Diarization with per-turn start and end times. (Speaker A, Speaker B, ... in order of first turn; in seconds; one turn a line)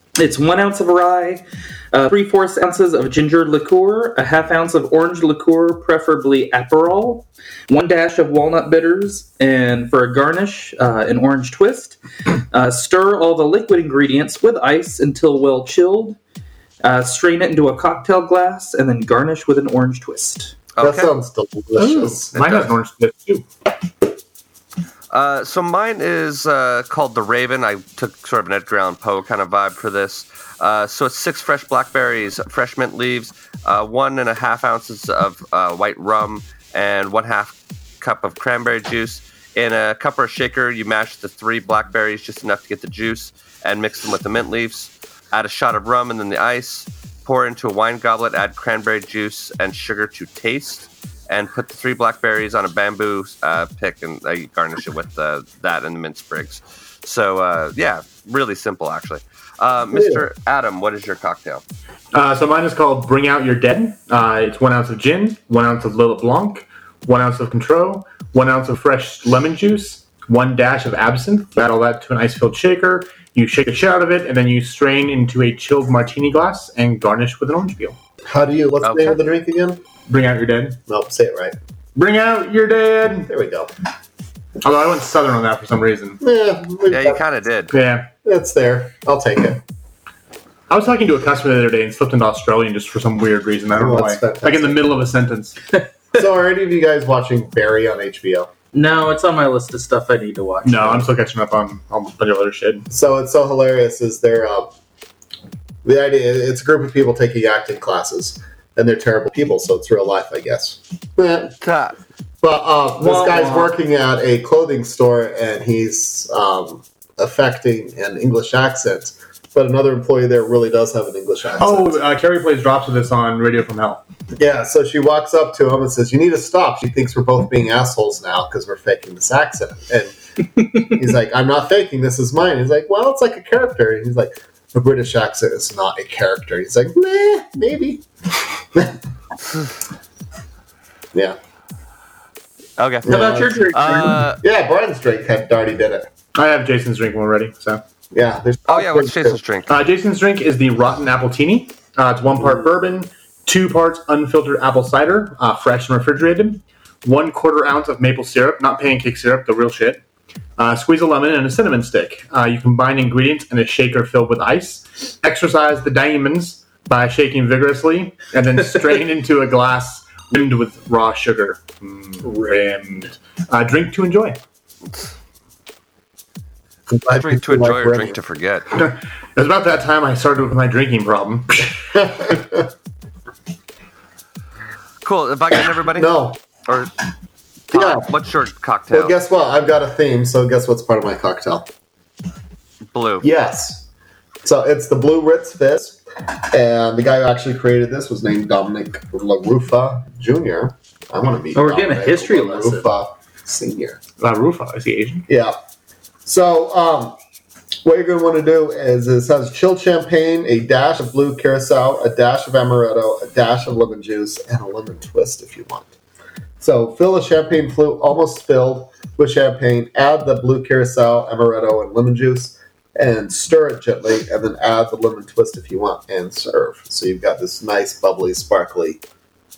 Speaker A: 0.2-12.0
Speaker A: 12.5-16.2
Speaker A: 16.8-20.5
Speaker B: 20.8-21.1
Speaker C: 20.8-22.3
Speaker D: 21.8-23.4
Speaker B: 22.3-22.7
Speaker B: 25.1-61.6
Speaker C: 59.9-60.2
Speaker D: 62.1-78.0
Speaker C: 78.2-79.8
Speaker B: 78.8-79.2
Speaker D: 80.0-80.8
Speaker C: 80.9-81.5
Speaker D: 81.9-83.3
Speaker C: 83.3-83.7
Speaker D: 84.6-86.2
Speaker C: 86.2-87.2
Speaker B: 86.9-87.7
Speaker D: 87.7-88.1
Speaker C: 88.2-89.6
Speaker D: 90.7-95.5
Speaker C: 93.8-94.9
Speaker C: 96.1-98.5
Speaker A: 98.7-101.1
Speaker D: 100.6-102.8
Speaker C: 102.9-104.7
Speaker C: 105.8-111.6
Speaker B: 111.6-112.0
Speaker C: 112.4-122.0
Speaker A: 113.0-113.7
Speaker D: 121.6-124.0
Speaker C: 124.3-130.1
Speaker C: 130.7-138.0
Speaker C: 138.6-139.0
Speaker B: 142.8-143.1
Speaker C: 143.0-146.1
Speaker A: 143.0-144.2
Speaker B: 143.7-144.4
Speaker D: 146.3-147.8
Speaker C: 148.1-149.4
Speaker B: 148.7-149.8
Speaker D: 149.7-160.0
Speaker C: 152.4-152.7
Speaker D: 160.6-174.4
Speaker C: 176.9-178.2
Speaker B: 177.2-178.7
Speaker D: 178.8-181.7
Speaker C: 181.9-182.7
Speaker B: 185.0-186.1
Speaker C: 185.8-186.4
Speaker B: 187.7-189.2
Speaker C: 187.7-188.1
Speaker C: 188.9-191.7
Speaker B: 192.9-193.3
Speaker C: 193.2-193.8
Speaker C: 194.4-196.0
Speaker C: 196.5-204.0
Speaker A: 201.5-202.9
Speaker D: 204.2-205.2
Speaker C: 205.3-205.5
Speaker C: 206.2-207.2
Speaker C: 207.8-215.9
Speaker C: 216.6-229.0